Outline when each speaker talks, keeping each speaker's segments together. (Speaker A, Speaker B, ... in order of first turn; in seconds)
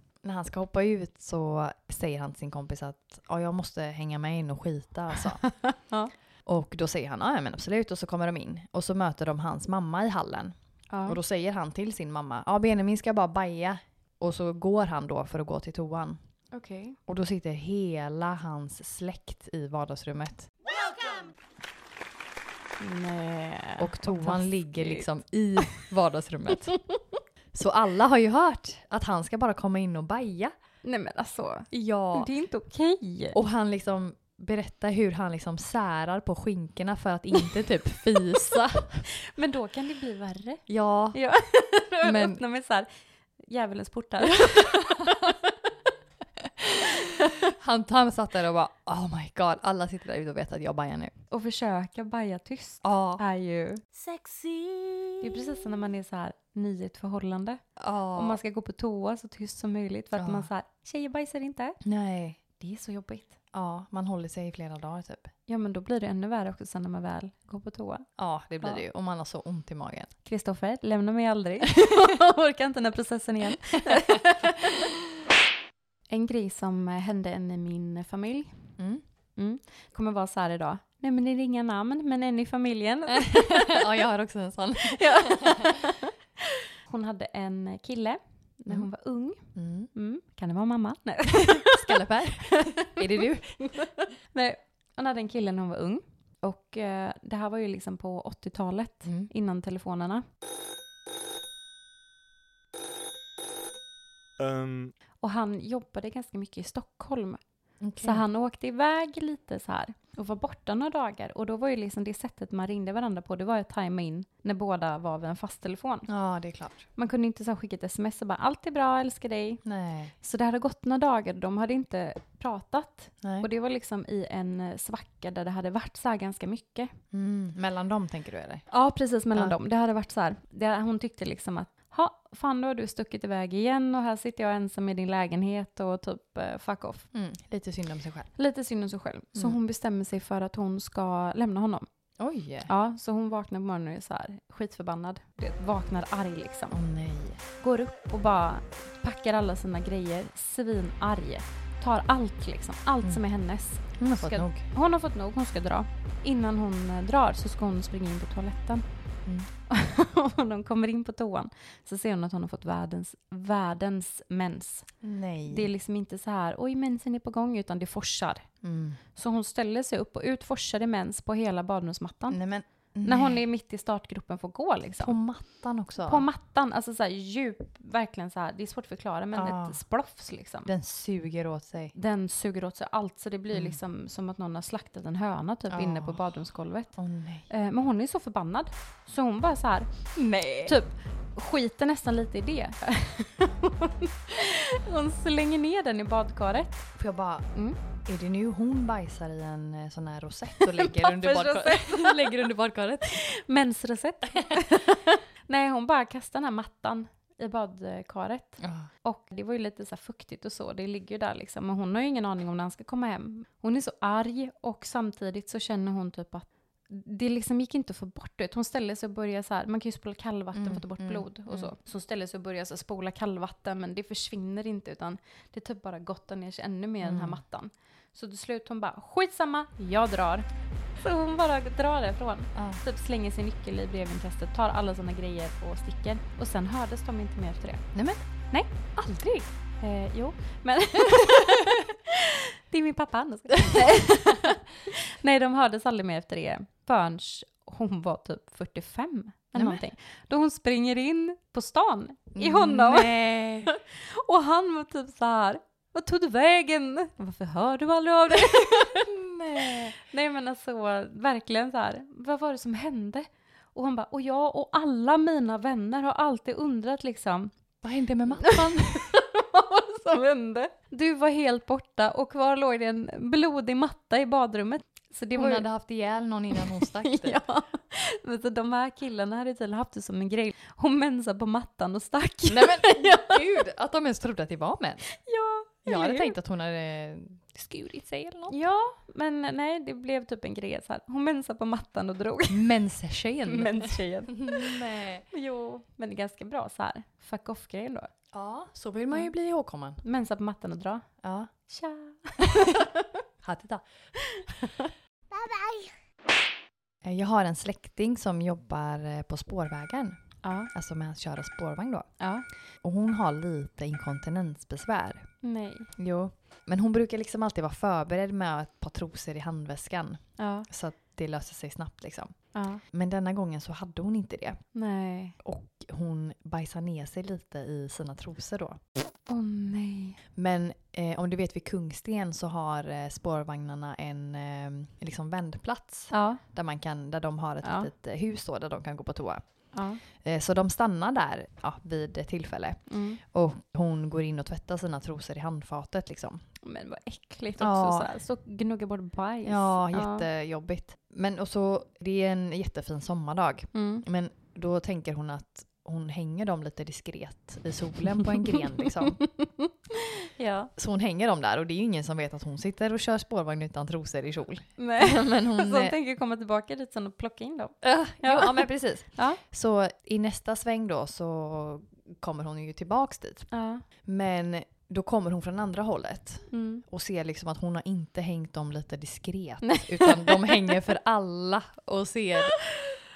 Speaker A: 0.2-5.4, 6.4-10.5, 11.1-16.2, 17.1-20.5, 23.8-26.8, 27.5-30.5, 31.7-32.3, 33.3-39.0, 40.7-41.2, 42.0-42.4, 44.3-45.3, 46.4-51.1, 52.8-53.2, 54.0-55.4, 57.8-58.4, 60.1-60.5, 61.8-62.4, 63.5-65.3, 68.2-70.1, 73.9-74.4, 83.1-85.8, 89.5-89.9, 91.6-93.9, 99.0-99.3, 107.8-108.2, 116.1-116.8, 119.6-120.1, 123.2-123.5, 127.1-128.7, 137.1-138.3, 142.2-142.7, 146.7-147.4, 154.0-154.6, 165.0-165.7, 168.6-169.0, 172.3-173.4, 175.0-176.2, 179.3-179.8, 180.7-181.9, 183.5-183.8, 185.7-186.3, 186.9-187.5, 190.2-190.8, 196.9-197.5, 198.0-203.1, 208.6-208.9, 220.5-221.7, 227.0-227.4, 232.5-232.8, 237.9-238.2, 238.9-239.4, 249.5-249.8, 252.3-253.7, 258.8-259.9, 267.8-269.1, 275.3-277.4, 282.5-285.1, 285.9-288.6, 292.5-295.2, 298.3-300.0, 301.2-301.5, 303.4-303.8, 307.0-310.2, 310.7-312.1, 312.8-315.2, 315.9-324.6, 325.4-328.8, 330.4-346.4, 347.6-348.1, 349.4-359.2, 360.8-365.9, 367.8-373.5, 374.0-382.7
Speaker B: 5.8-6.1, 10.9-11.2, 16.5-17.0, 22.8-25.1, 30.8-33.4, 39.2-42.9, 43.4-45.3, 51.3-53.8, 55.2-61.8, 62.6-63.3, 65.5-68.1, 70.2-74.8, 76.1-78.6, 79.3-83.8, 84.9-86.1, 86.8-100.2, 105.2-107.4, 108.0-116.1, 116.9-119.6, 120.2-126.9, 128.7-137.1, 138.3-141.9, 142.7-146.8, 147.6-158.8, 159.7-164.9, 165.5-168.5, 169.1-172.4, 173.0-175.2, 176.0-180.7, 181.9-186.9, 187.5-190.1, 190.7-196.9, 200.7-202.3, 203.1-230.5, 231.0-237.9, 239.8-253.1, 253.7-267.5, 268.4-275.6, 276.5-283.4, 285.2-286.3, 288.5-292.7, 293.4-294.8, 295.3-298.1, 300.0-301.1, 301.7-303.1, 304.3-304.8, 310.4-310.7, 312.2-312.4, 315.4-315.9, 320.4-320.7, 322.5-322.8, 324.7-325.4, 329.3-330.2, 336.1-336.4, 337.6-337.9, 339.7-340.0, 342.9-343.2, 346.6-350.3, 353.7-354.0, 359.4-359.7, 360.4-360.7, 364.8-369.4, 373.5-373.8, 376.5-376.8, 379.6-380.8